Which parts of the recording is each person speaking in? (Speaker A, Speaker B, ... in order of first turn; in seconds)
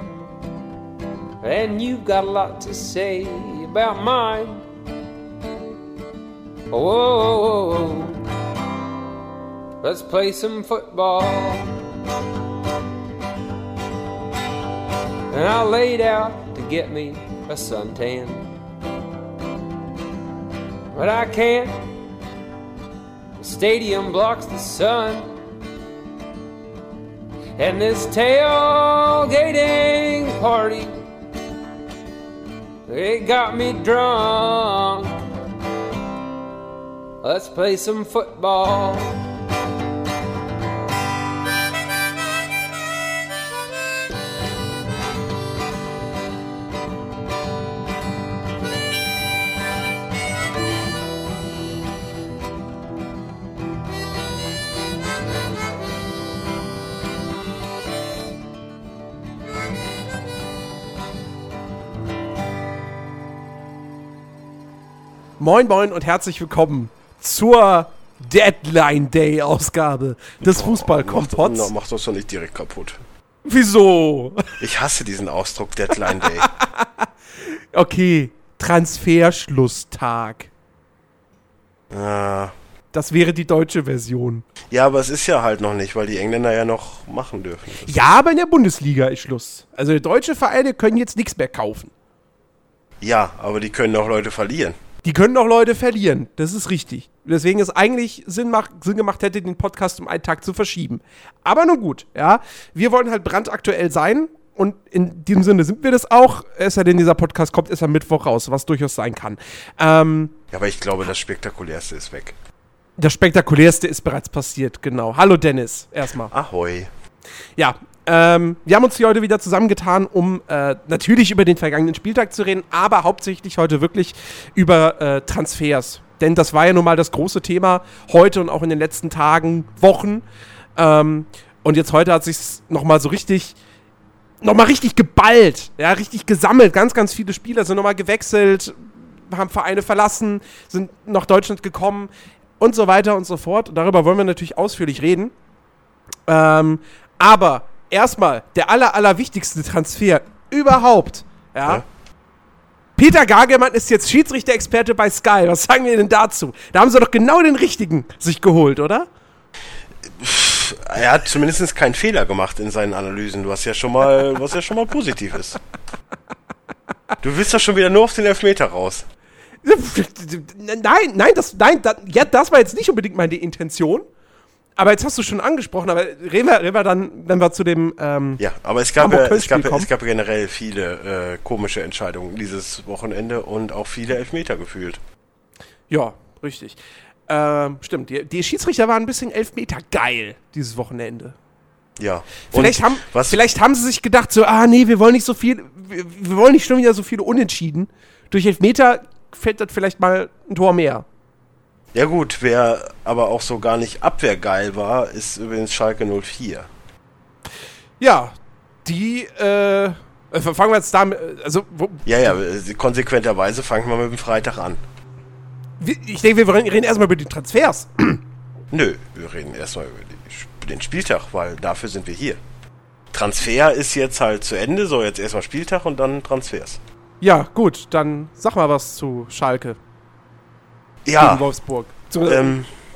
Speaker A: 1.4-4.6, 6.7-8.2, 9.8-11.7, 15.3-18.5, 20.9-21.9, 23.4-25.3, 27.6-30.9, 32.9-35.2, 37.2-39.2
Speaker B: 65.4-71.7, 73.4-74.5, 76.2-80.5, 82.9-84.4, 87.9-91.9, 95.0-110.3, 113.0-116.3, 117.6-130.2, 130.8-133.6, 134.4-145.3, 146.3-151.8, 153.0-159.1, 169.6-174.1, 174.8-178.4, 179.0-179.9, 185.9-191.3, 192.5-201.0, 208.0-212.0, 215.8-218.2, 227.2-229.8, 231.2-232.6
Speaker C: 70.5-73.0, 74.6-76.5, 81.9-82.5, 84.7-88.0, 93.0-94.8, 110.5-112.3, 116.3-116.9, 160.1-165.6, 167.2-169.1, 178.4-185.0, 192.0-193.4, 201.9-206.7, 212.1-214.8, 218.7-222.4, 223.1-226.8, 231.0-231.4, 232.2-232.7